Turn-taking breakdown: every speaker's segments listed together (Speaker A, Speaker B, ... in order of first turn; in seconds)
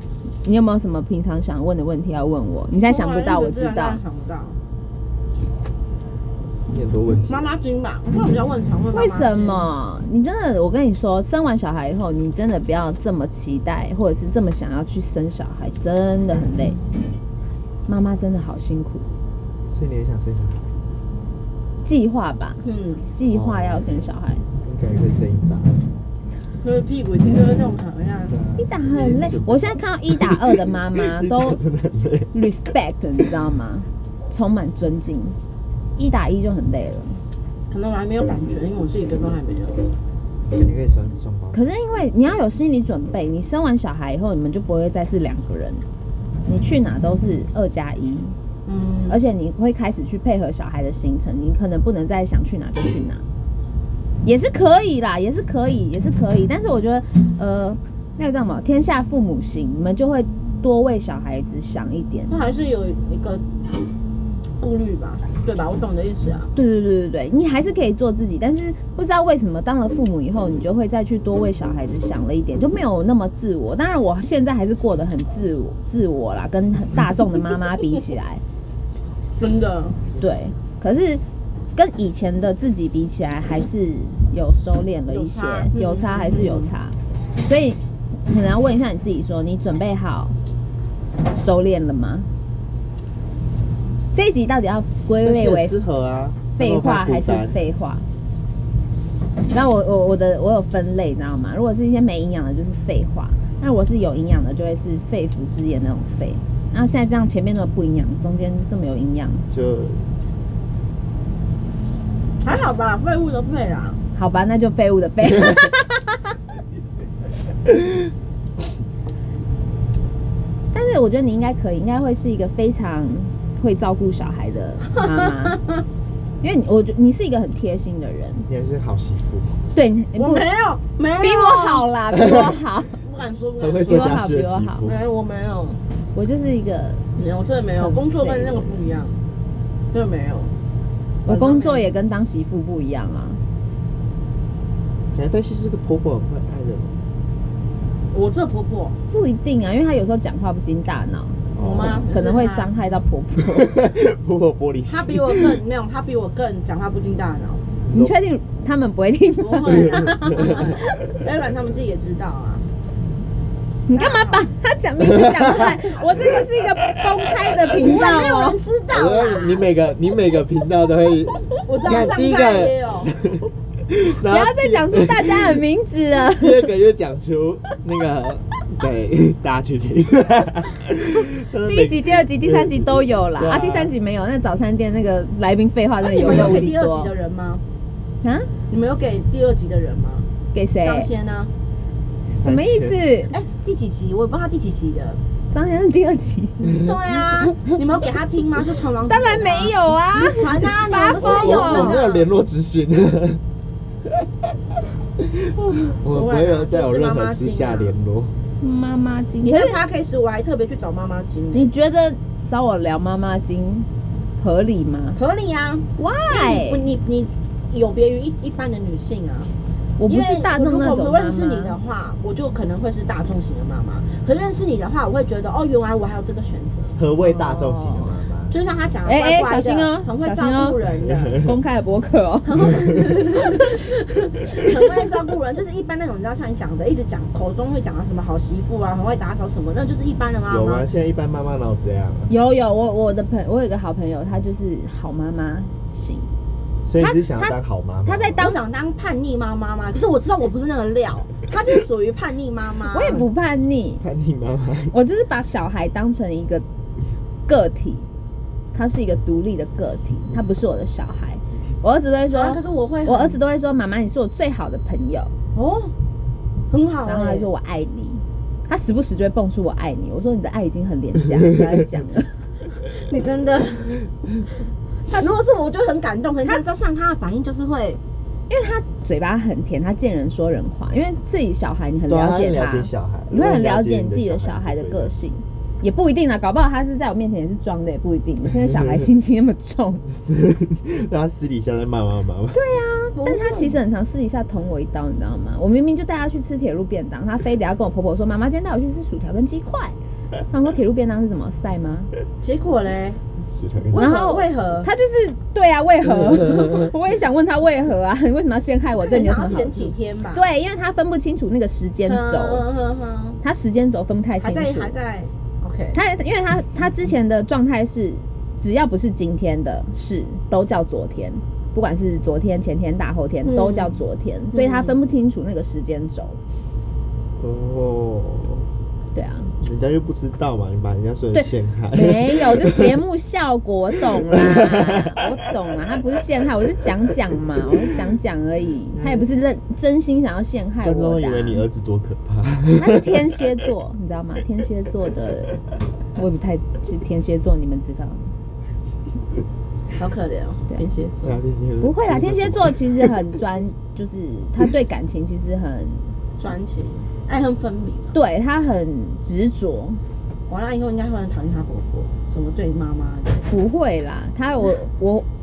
Speaker A: 0.4-4.0, 8.9-16.8, 17.9-19.1, 21.8-22.6, 23.1-24.4, 28.6-31.6, 32.3-35.4, 36.0-37.2, 41.5-45.8, 46.5-48.3, 49.1-53.2, 54.2-62.3, 66.5-78.4, 80.2-81.2, 81.7-90.3, 91.3-92.3, 94.1-95.8, 96.5-98.0, 99.5-109.5, 114.1-116.2, 120.7-125.6, 126.4-128.5, 129.7-130.4, 131.2-133.0, 133.8-134.9, 136.1-137.0, 137.8-138.9, 141.2-143.4, 149.1-151.4, 152.1-153.8, 157.9-161.0, 163.9-168.6, 174.2-176.7, 181.6-187.1, 188.2-188.5, 190.5-191.1, 192.3-193.3, 195.5-196.6, 199.1-202.0, 208.6-209.8, 211.5-213.9, 214.4-215.2, 216.0-216.8, 220.0-221.7, 227.2-228.1, 229.1-230.8, 231.4-232.7, 242.3-246.3, 247.0-247.5, 248.1-248.6, 252.9-254.0, 254.9-256.6, 257.5-258.1, 258.7-265.3, 267.1-272.4, 278.5-290.0, 292.5-299.9, 300.5-302.1, 303.9-312.7, 313.4-314.9, 315.9-326.4, 329.1-329.5, 331.3-341.6, 342.7-348.3, 351.8-356.0, 358.1-360.0, 363.5-365.2
Speaker B: 2.8-4.6, 7.3-9.7, 22.6-23.1, 26.6-28.4, 37.7-39.9, 48.6-49.2, 62.3-63.8, 64.6-66.5, 79.4-80.0, 85.1-86.7, 112.4-114.0, 124.9-125.8, 130.2-131.9, 133.0-134.2, 134.8-135.8, 137.2-139.2, 139.9-140.5, 141.2-141.9, 148.1-149.0, 151.6-152.7, 154.9-157.7, 159.4-162.7, 163.9-164.5, 167.8-169.6, 171.7-173.1, 186.0-187.6, 188.7-190.3, 190.8-191.5, 193.3-195.2, 196.6-202.3, 206.1-207.9, 209.4-211.7, 215.2-219.5, 220.1-227.0, 228.5-231.4, 232.4-240.8, 248.4-253.3, 262.3-263.4, 265.5-265.9, 266.7-267.5, 272.9-274.0, 275.1-278.0, 293.1-293.8, 302.4-303.2, 303.9-304.9, 309.0-310.4, 312.1-313.4, 314.4-316.0, 323.4-325.0, 349.9-351.4, 356.4-358.1, 360.5-363.5
Speaker C: 6.7-7.5, 19.7-20.7, 23.3-23.9, 24.6-25.8, 28.3-32.4, 40.5-41.6, 95.2-97.6, 109.5-110.1, 128.5-129.6, 132.1-132.6, 133.6-135.0, 145.1-147.0, 151.5-152.1, 153.5-155.6, 157.8-158.2, 160.3-160.7, 165.0-165.8, 167.0-167.5, 168.9-175.6, 176.1-183.9, 192.4-193.0, 201.2-203.4, 205.2-208.3, 226.9-228.6, 240.5-242.3, 246.8-248.4, 254.0-255.0, 282.1-285.1, 290.1-292.6, 303.4-304.1, 306.4-306.9, 327.4-328.7, 329.6-333.0, 334.1-335.1, 338.9-339.2, 340.8-343.2, 351.2-353.2